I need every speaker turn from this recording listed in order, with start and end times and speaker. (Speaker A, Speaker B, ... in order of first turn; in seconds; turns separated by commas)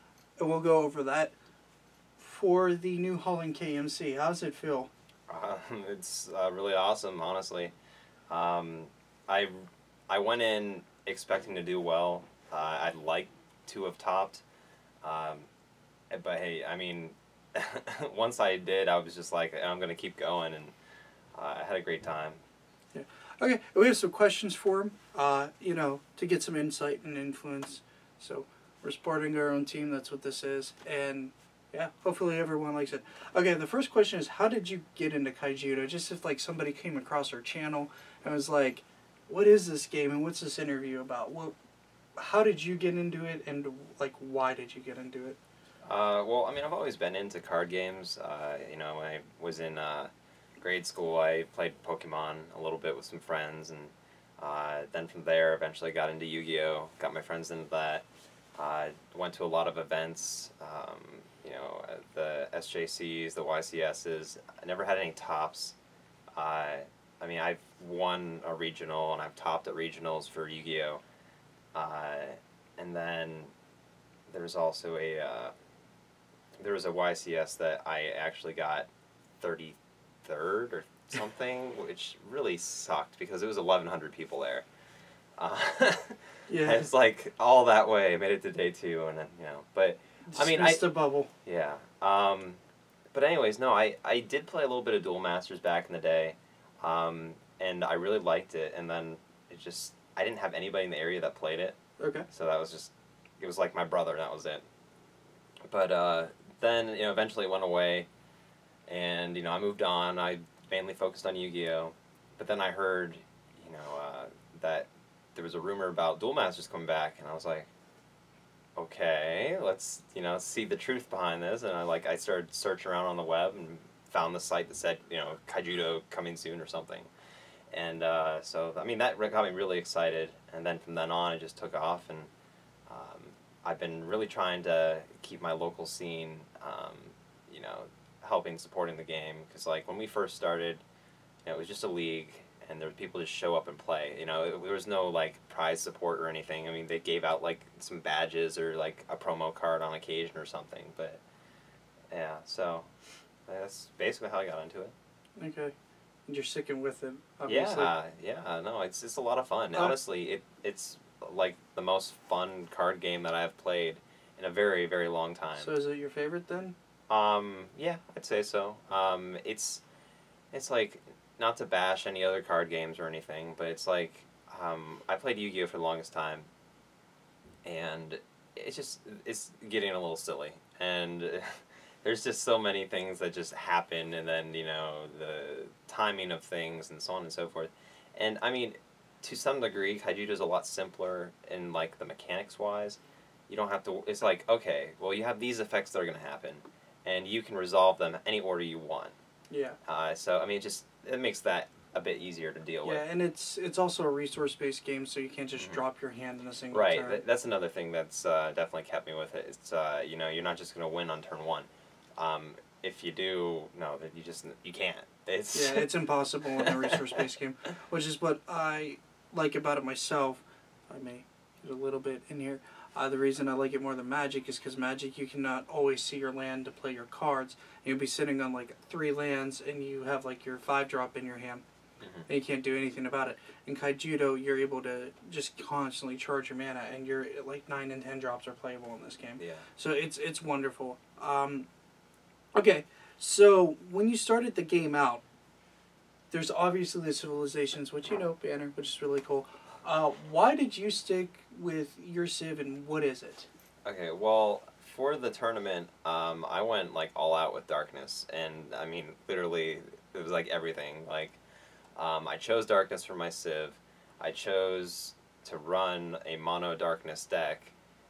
Speaker A: 0.4-1.3, Speaker A: 2.2-4.9, Speaker B: 5.3-7.7, Speaker B: 8.3-14.4, Speaker B: 15.0-15.5, Speaker B: 16.1-20.7, Speaker B: 21.3-22.4, Speaker A: 22.9-41.5, Speaker A: 42.1-45.4, Speaker B: 45.8-65.8, Speaker B: 66.3-71.0, Speaker B: 71.7-73.5, Speaker B: 74.3-75.5, Speaker B: 76.5-78.9, Speaker B: 79.4-84.7, Speaker B: 85.4-90.8, Speaker A: 86.5-86.8, Speaker A: 90.3-91.3, Speaker B: 91.4-92.6, Speaker B: 93.1-101.8, Speaker A: 102.0-102.3, Speaker B: 102.3-104.6, Speaker B: 105.7-108.1, Speaker B: 108.9-117.7, Speaker B: 118.8-127.1, Speaker B: 127.7-132.3, Speaker B: 132.9-140.8, Speaker B: 141.4-151.2, Speaker B: 152.1-152.9, Speaker B: 153.4-154.9, Speaker A: 155.4-155.7, Speaker A: 156.3-157.9, Speaker B: 157.5-165.7, Speaker A: 165.6-166.8, Speaker B: 167.1-169.8, Speaker B: 170.5-176.5, Speaker B: 177.6-199.1, Speaker A: 199.5-199.8, Speaker B: 199.8-203.0, Speaker A: 202.8-207.2, Speaker B: 205.6-205.8, Speaker B: 206.7-215.9, Speaker A: 215.5-231.6, Speaker B: 216.6-217.2, Speaker B: 232.0-232.3, Speaker A: 232.3-241.7, Speaker B: 239.4-239.6, Speaker A: 242.5-245.2, Speaker A: 246.3-253.5, Speaker B: 253.8-261.4, Speaker B: 261.9-267.7